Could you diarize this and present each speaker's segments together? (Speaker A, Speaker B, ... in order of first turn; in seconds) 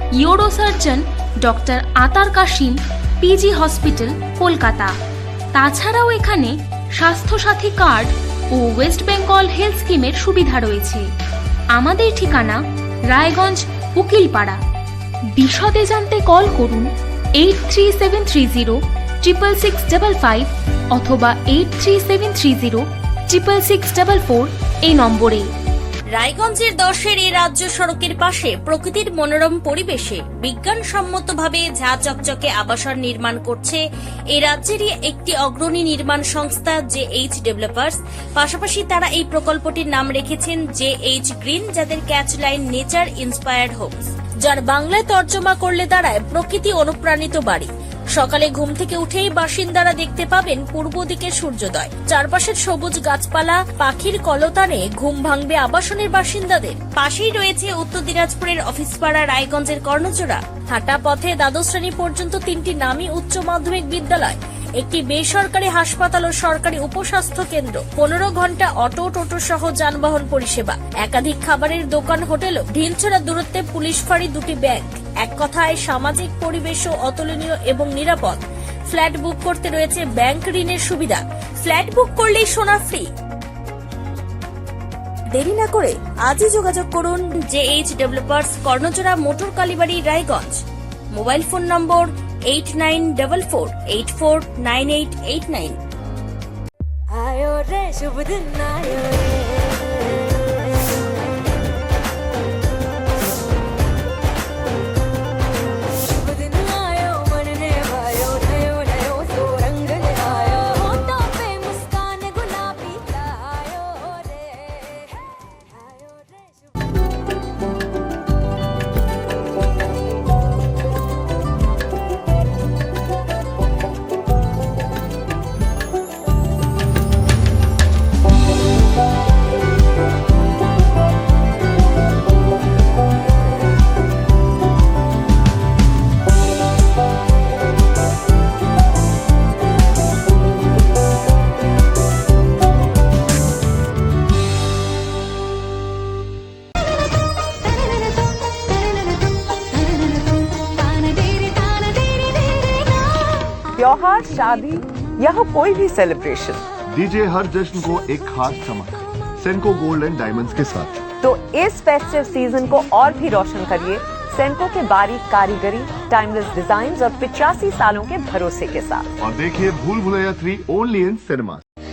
Speaker A: 0.2-4.9, 5.5-11.1, 11.7-14.6, 15.4-25.5, 109.8-110.4, 111.7-111.9
Speaker B: 26.1-33.8, 34.3-78.4, 78.9-83.0, 85.4-90.6, 91.1-95.8
Speaker C: 97.2-99.4, 106.3-113.4
Speaker D: 153.8-156.6, 161.2-169.1
Speaker E: 156.9-161.0, 169.2-171.6